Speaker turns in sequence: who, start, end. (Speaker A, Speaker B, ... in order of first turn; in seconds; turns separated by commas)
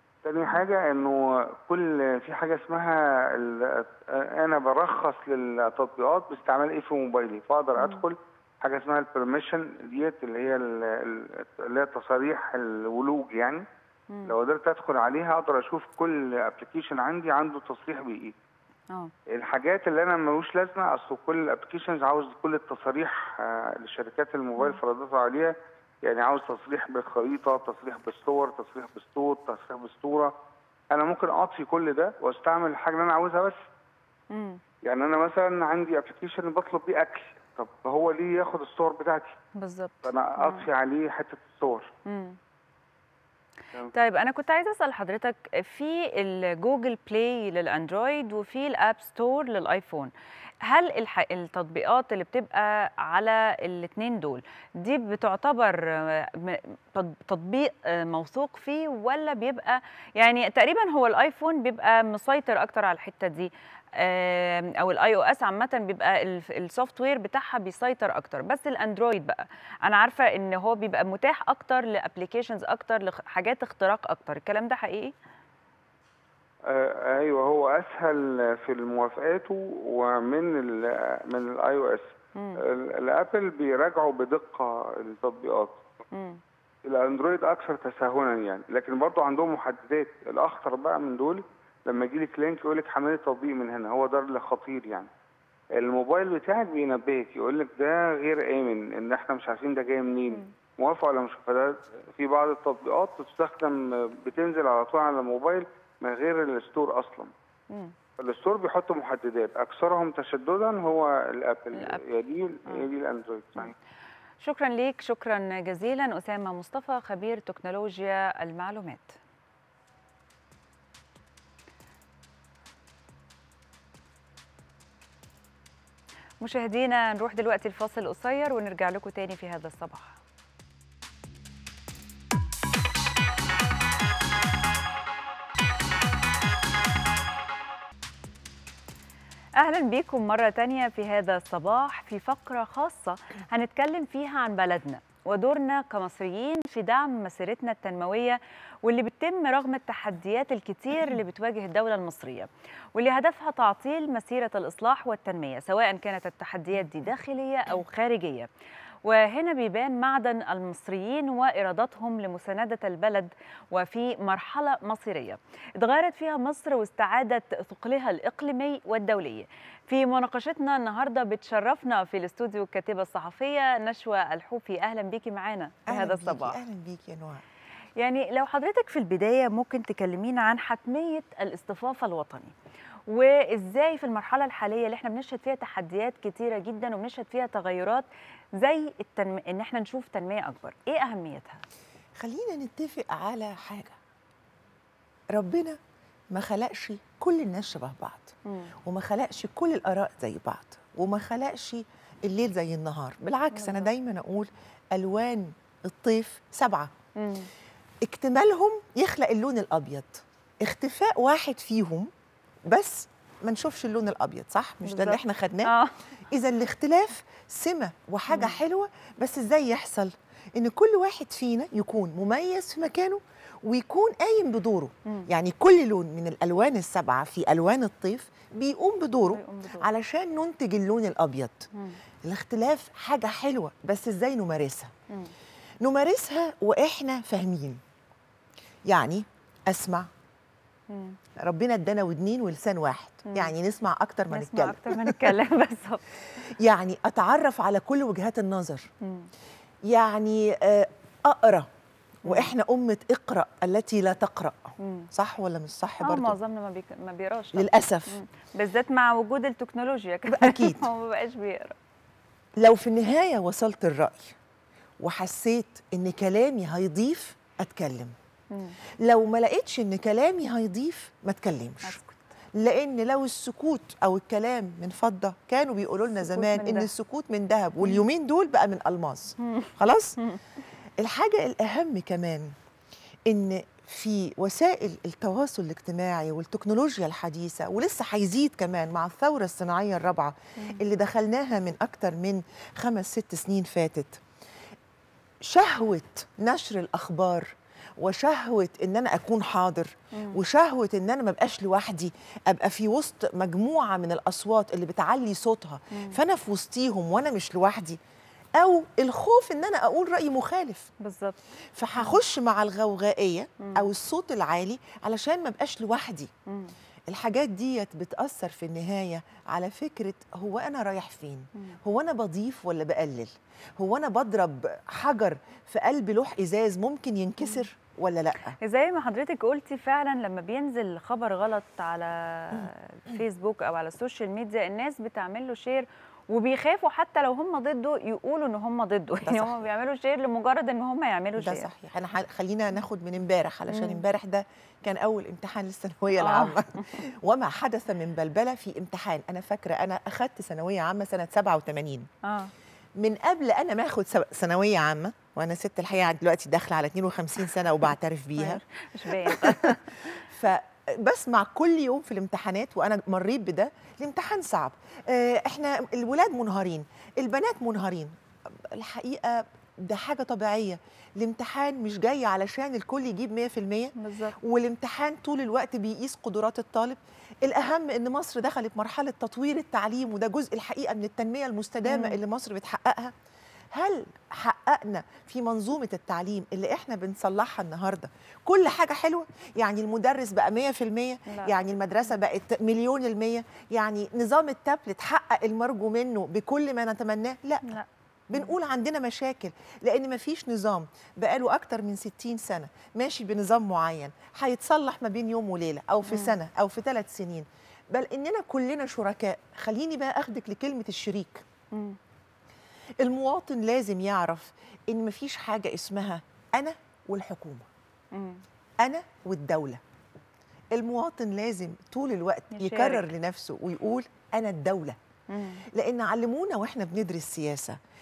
Speaker A: 0.2-13.6, Speaker B: 14.1-14.3, Speaker A: 14.2-18.3, Speaker A: 19.3-30.3, Speaker A: 30.9-33.6, Speaker B: 34.3-34.6, Speaker A: 34.9-39.4, Speaker B: 39.6-40.7, Speaker A: 40.0-41.9, Speaker B: 42.0-42.4, Speaker B: 43.9-50.1, Speaker B: 50.6-75.1, Speaker A: 76.7-85.8, Speaker B: 82.4-82.6, Speaker B: 86.1-86.4, Speaker A: 86.9-95.1, Speaker A: 95.7-107.3, Speaker A: 108.2-113.7, Speaker B: 111.7-112.0, Speaker B: 114.4-119.2, Speaker B: 126.4-130.2, Speaker B: 139.6-158.5, Speaker B: 159.0-176.6, Speaker C: 175.9-177.4, Speaker B: 178.0-182.5, Speaker B: 183.1-188.1, Speaker B: 188.6-191.6, Speaker C: 192.2-193.9, Speaker C: 195.3-195.8, Speaker C: 196.3-198.3, Speaker C: 198.8-206.9, Speaker B: 203.5-203.9, Speaker B: 207.2-207.5, Speaker C: 208.0-212.1, Speaker C: 212.7-215.7, Speaker B: 214.8-215.9, Speaker C: 216.3-231.7, Speaker B: 218.3-218.6, Speaker B: 229.3-229.9, Speaker C: 232.2-234.9, Speaker C: 235.8-237.8, Speaker C: 238.9-240.1, Speaker B: 240.9-241.2, Speaker C: 241.4-245.2, Speaker B: 243.2-243.5, Speaker B: 244.3-246.0, Speaker C: 246.6-248.9, Speaker B: 249.0-249.3, Speaker C: 249.9-251.7, Speaker B: 252.2-252.5, Speaker C: 252.2-256.4, Speaker B: 254.8-255.1, Speaker B: 256.0-261.8, Speaker C: 257.5-258.2, Speaker C: 260.3-260.8, Speaker C: 262.6-264.3, Speaker C: 265.0-268.1, Speaker C: 269.0-272.0, Speaker B: 271.8-272.2, Speaker C: 272.6-280.2, Speaker B: 276.2-276.9, Speaker C: 281.0-282.5, Speaker C: 283.3-294.2, Speaker C: 295.4-308.0, Speaker B: 300.1-300.4, Speaker B: 305.9-306.2, Speaker C: 308.6-310.9, Speaker B: 311.0-311.4, Speaker C: 311.8-316.3, Speaker B: 313.6-313.9, Speaker B: 316.5-316.7, Speaker C: 317.1-328.6, Speaker B: 328.6-341.7, Speaker C: 339.2-339.6, Speaker C: 341.4-352.1, Speaker B: 343.7-344.0, Speaker B: 346.1-346.6, Speaker B: 352.2-352.5, Speaker C: 353.0-358.6, Speaker B: 358.4-359.9, Speaker C: 359.1-359.8, Speaker C: 360.3-368.1, Speaker C: 368.7-383.1, Speaker B: 373.9-374.4, Speaker B: 381.8-382.2, Speaker C: 383.7-397.8, Speaker B: 391.2-391.6, Speaker B: 397.6-398.5, Speaker C: 398.3-411.4, Speaker B: 406.1-406.4, Speaker C: 413.0-417.6, Speaker B: 418.1-418.4, Speaker C: 418.8-419.8, Speaker C: 420.7-425.0, Speaker B: 422.5-423.1, Speaker B: 425.3-425.6, Speaker C: 425.7-427.8